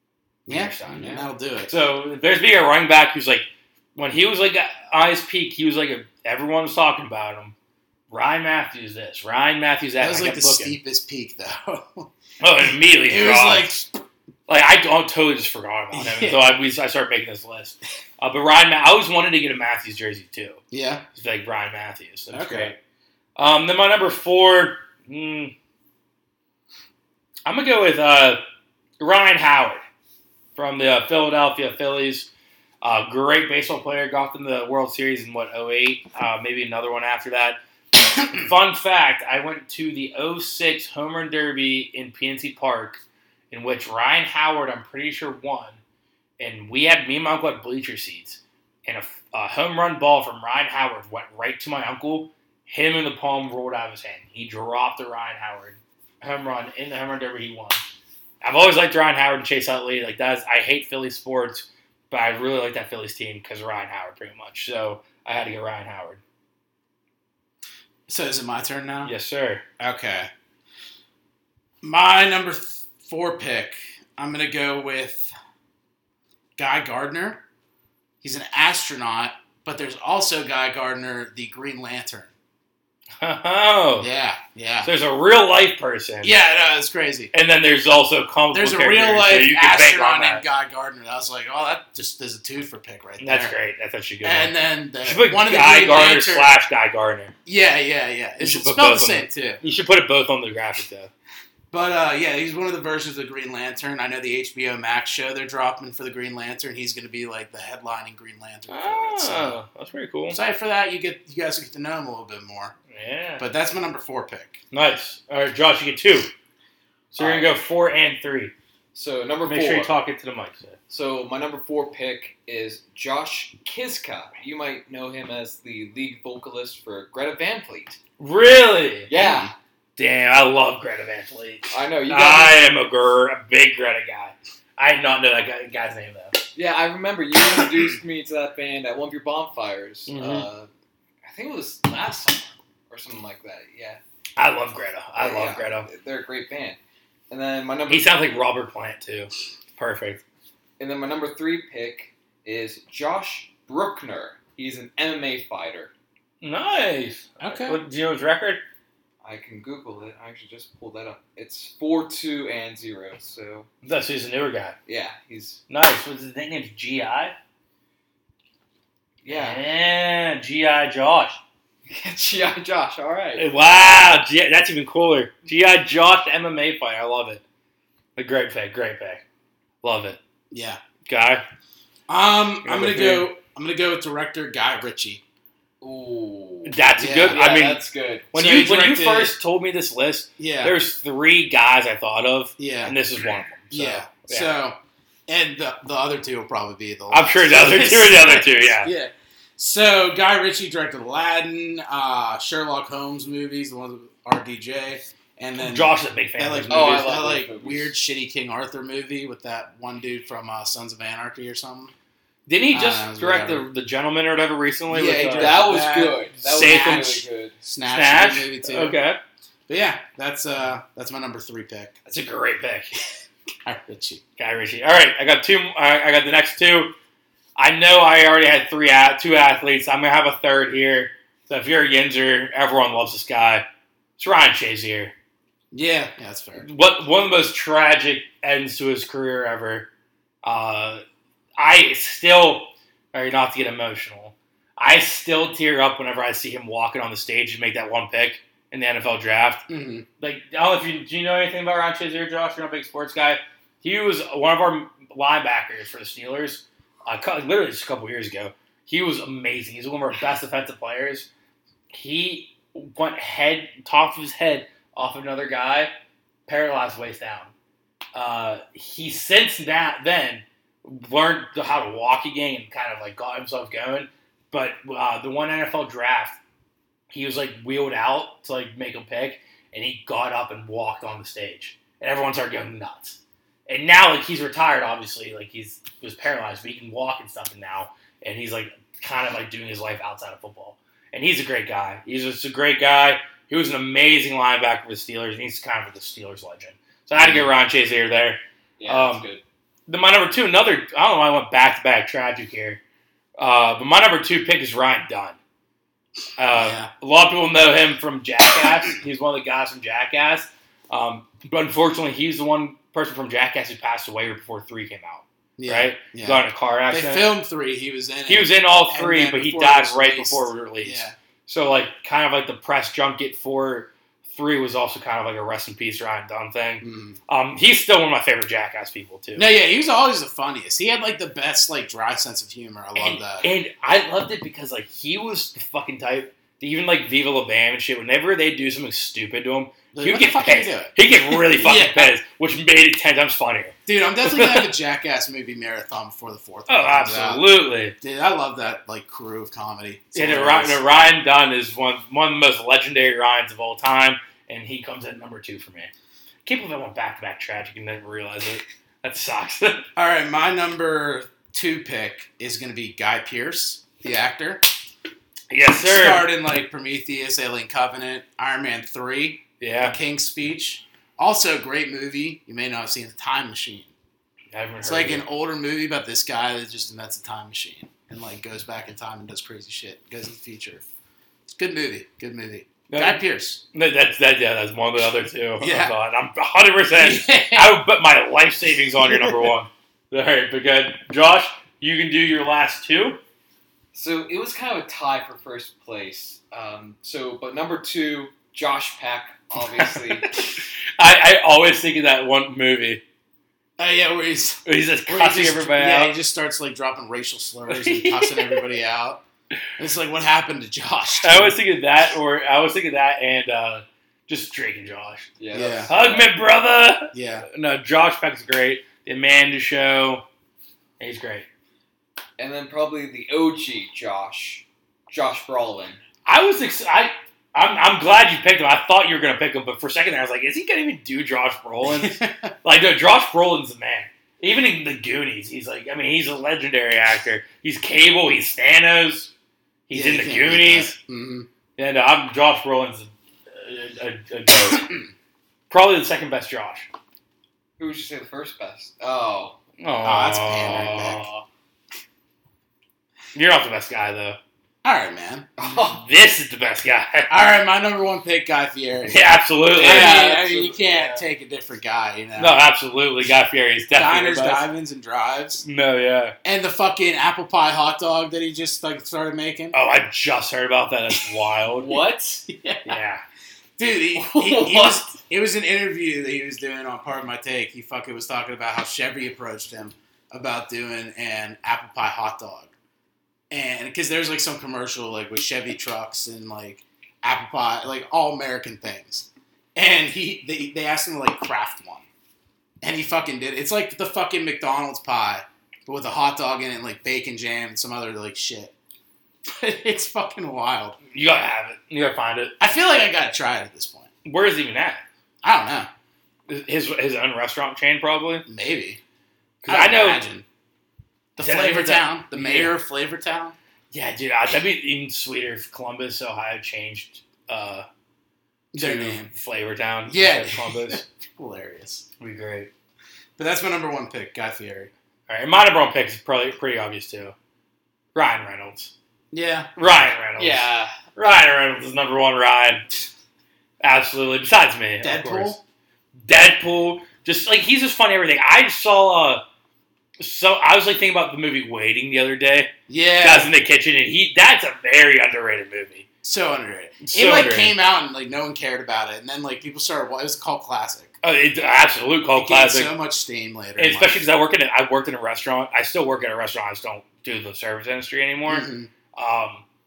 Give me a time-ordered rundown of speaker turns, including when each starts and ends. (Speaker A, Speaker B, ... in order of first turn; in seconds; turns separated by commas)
Speaker A: 0.5-1.7, Speaker B: 0.5-7.5, Speaker B: 8.1-10.8, Speaker A: 10.0-12.1, Speaker B: 12.4-13.7, Speaker A: 13.1-13.9, Speaker B: 14.5-20.6, Speaker A: 15.9-16.5, Speaker A: 20.7-21.1, Speaker B: 21.1-22.8, Speaker A: 22.3-22.8, Speaker B: 23.4-25.5, Speaker B: 27.5-28.4, Speaker B: 29.0-29.8, Speaker B: 30.6-32.3, Speaker B: 32.8-45.8, Speaker B: 46.4-57.8, Speaker B: 58.4-66.2, Speaker A: 68.1-69.1, Speaker B: 69.0-69.6, Speaker A: 69.8-70.3, Speaker A: 71.8-75.3, Speaker A: 76.6-77.4, Speaker A: 78.2-82.3, Speaker B: 83.2-84.1, Speaker A: 84.0-84.9, Speaker B: 84.8-86.4, Speaker A: 86.2-87.3, Speaker B: 87.3-90.4, Speaker A: 88.5-93.6, Speaker B: 93.2-97.3, Speaker A: 94.2-96.5, Speaker A: 97.5-99.6, Speaker B: 98.4-101.1, Speaker A: 101.7-109.6, Speaker B: 108.7-110.4, Speaker A: 110.3-112.7, Speaker B: 112.9-113.5, Speaker A: 113.4-114.6, Speaker B: 114.7-116.3, Speaker B: 117.1-118.5, Speaker C: 117.2-117.5, Speaker C: 118.9-119.9, Speaker B: 119.4-120.8, Speaker C: 120.9-128.0, Speaker B: 128.2-129.1, Speaker C: 129.1-129.5, Speaker A: 129.1-129.5, Speaker B: 130.0-136.4, Speaker C: 131.7-132.6, Speaker C: 136.6-140.7, Speaker B: 140.1-140.5, Speaker C: 141.2-144.0, Speaker B: 144.4-145.9, Speaker C: 145.2-146.8, Speaker C: 147.3-148.1, Speaker B: 147.9-150.2, Speaker C: 150.8-155.9, Speaker B: 156.4-158.6, Speaker A: 157.4-157.8, Speaker C: 159.2-163.7, Speaker B: 163.8-164.8, Speaker C: 164.9-165.6, Speaker B: 165.7-167.4, Speaker C: 169.2-169.6, Speaker B: 169.3-171.4, Speaker C: 171.9-173.5, Speaker B: 173.4-177.4, Speaker B: 178.2-179.2, Speaker B: 179.8-180.2, Speaker A: 180.5-180.8, Speaker B: 181.1-181.4, Speaker A: 182.1-185.2, Speaker B: 182.6-183.3, Speaker C: 185.8-188.3, Speaker B: 186.7-194.6, Speaker A: 187.0-187.4, Speaker A: 188.3-189.3, Speaker A: 190.4-190.8, Speaker A: 192.6-193.0, Speaker A: 193.7-211.9, Speaker B: 197.1-198.9, Speaker B: 205.6-207.3, Speaker C: 206.7-208.0, Speaker B: 212.5-215.8, Speaker A: 212.7-213.7, Speaker A: 214.9-219.0, Speaker C: 215.3-217.6, Speaker B: 216.4-217.2, Speaker B: 217.9-219.2, Speaker A: 219.7-222.0, Speaker B: 222.1-222.9, Speaker A: 223.7-224.2, Speaker B: 224.4-227.0, Speaker B: 227.6-233.7, Speaker B: 234.2-235.1, Speaker A: 235.7-236.7, Speaker B: 236.6-239.9, Speaker B: 240.4-241.0, Speaker B: 241.6-249.7, Speaker A: 249.7-250.1, Speaker B: 250.2-261.3, Speaker B: 261.9-265.9, Speaker B: 266.5-267.5, Speaker B: 268.1-276.4, Speaker B: 277.1-299.2, Speaker A: 297.2-297.5, Speaker C: 298.8-299.4, Speaker B: 299.9-302.8, Speaker B: 303.4-305.4, Speaker B: 306.4-317.3, Speaker A: 306.5-306.9, Speaker A: 315.6-321.1, Speaker B: 318.3-329.5, Speaker A: 326.8-327.2, Speaker A: 329.4-333.5, Speaker B: 333.0-344.7, Speaker A: 339.9-342.1, Speaker A: 343.9-347.4, Speaker B: 346.7-348.0, Speaker A: 348.0-350.8, Speaker B: 350.1-355.9, Speaker B: 356.4-359.9, Speaker A: 360.0-364.6, Speaker B: 365.5-366.3, Speaker A: 365.8-373.9, Speaker B: 369.6-370.0, Speaker B: 374.5-375.2, Speaker A: 374.8-380.9, Speaker A: 381.5-383.6, Speaker B: 382.9-383.2, Speaker B: 383.7-393.2, Speaker A: 385.6-385.9, Speaker A: 386.9-387.8, Speaker A: 389.1-389.4, Speaker C: 393.9-400.3, Speaker B: 399.8-400.3, Speaker B: 401.0-403.0, Speaker A: 403.8-409.2, Speaker B: 404.6-406.2, Speaker B: 407.7-408.6, Speaker A: 409.8-411.6, Speaker B: 411.2-415.4, Speaker C: 415.4-416.4, Speaker A: 415.5-415.9, Speaker B: 415.9-420.3, Speaker A: 417.1-417.5, Speaker B: 421.0-421.5, Speaker C: 422.4-426.0, Speaker B: 426.3-439.3, Speaker A: 431.9-432.5, Speaker B: 439.9-441.0, Speaker A: 439.9-441.5, Speaker B: 441.8-444.9, Speaker B: 445.7-446.9, Speaker C: 447.8-449.6, Speaker B: 449.8-451.4, Speaker A: 450.0-451.2, Speaker B: 453.4-454.4, Speaker A: 454.8-455.5, Speaker C: 455.6-456.0, Speaker B: 455.8-457.3, Speaker A: 457.3-462.7, Speaker B: 459.1-460.4, Speaker C: 459.8-461.3, Speaker B: 462.4-464.7, Speaker A: 463.9-465.6, Speaker B: 465.6-466.4, Speaker A: 466.4-469.8, Speaker B: 469.7-472.0, Speaker C: 471.7-472.4, Speaker A: 472.5-473.0, Speaker B: 472.9-473.2, Speaker A: 473.8-482.7, Speaker C: 474.2-475.1, Speaker A: 483.5-492.1, Speaker A: 492.8-498.7, Speaker A: 499.5-501.0, Speaker B: 501.1-502.6, Speaker A: 502.6-504.1, Speaker B: 504.2-505.0, Speaker A: 505.4-505.9, Speaker B: 506.5-508.5, Speaker A: 508.5-509.0, Speaker B: 509.6-510.2, Speaker A: 509.7-510.4, Speaker A: 511.4-513.5, Speaker B: 511.4-512.8, Speaker B: 513.9-517.9, Speaker A: 518.7-519.3, Speaker B: 518.8-521.1, Speaker A: 520.1-522.1, Speaker B: 522.2-522.7, Speaker A: 523.4-524.9, Speaker B: 525.3-527.4, Speaker B: 528.1-528.9, Speaker A: 529.3-529.8, Speaker B: 529.8-532.9, Speaker C: 530.4-530.9, Speaker B: 533.8-535.6, Speaker A: 535.0-535.6, Speaker B: 536.2-539.4, Speaker B: 540.2-546.1, Speaker A: 542.9-543.5, Speaker A: 546.2-551.2, Speaker B: 547.0-547.7, Speaker B: 551.2-553.0, Speaker A: 552.4-554.3, Speaker B: 553.8-559.6, Speaker A: 558.5-558.9